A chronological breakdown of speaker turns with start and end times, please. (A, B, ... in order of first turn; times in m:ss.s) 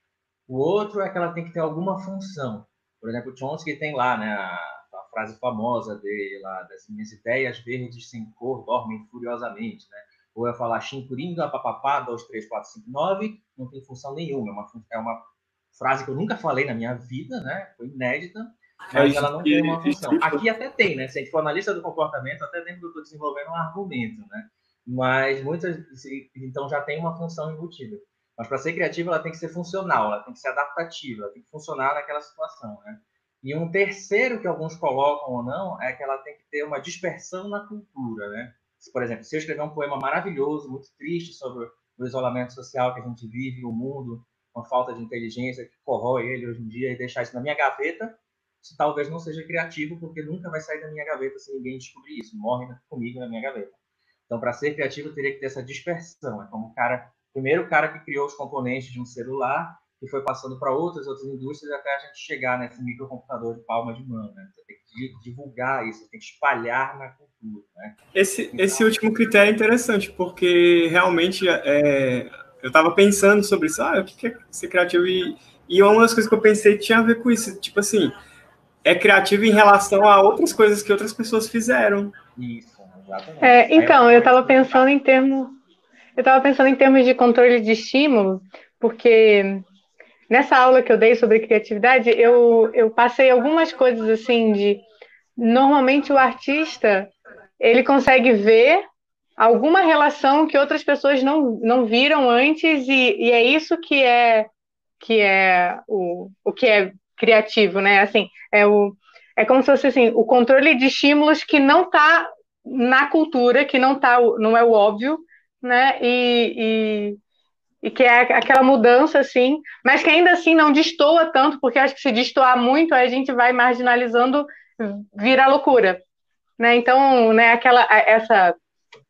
0:00.5-1:08.0 A
0:18.9-0:20.4 B
1:08.1-1:18.2 B
1:08.5-1:08.9 A
1:18.8-1:22.1 B
1:22.4-1:24.8 A
1:23.4-1:25.6 C
1:26.2-1:29.6 C
1:30.3-1:34.8 C
1:35.4-1:38.8 C
1:39.4-1:44.5 C
1:45.0-1:57.2 C
1:57.8-2:06.0 C
2:06.6-2:08.6 C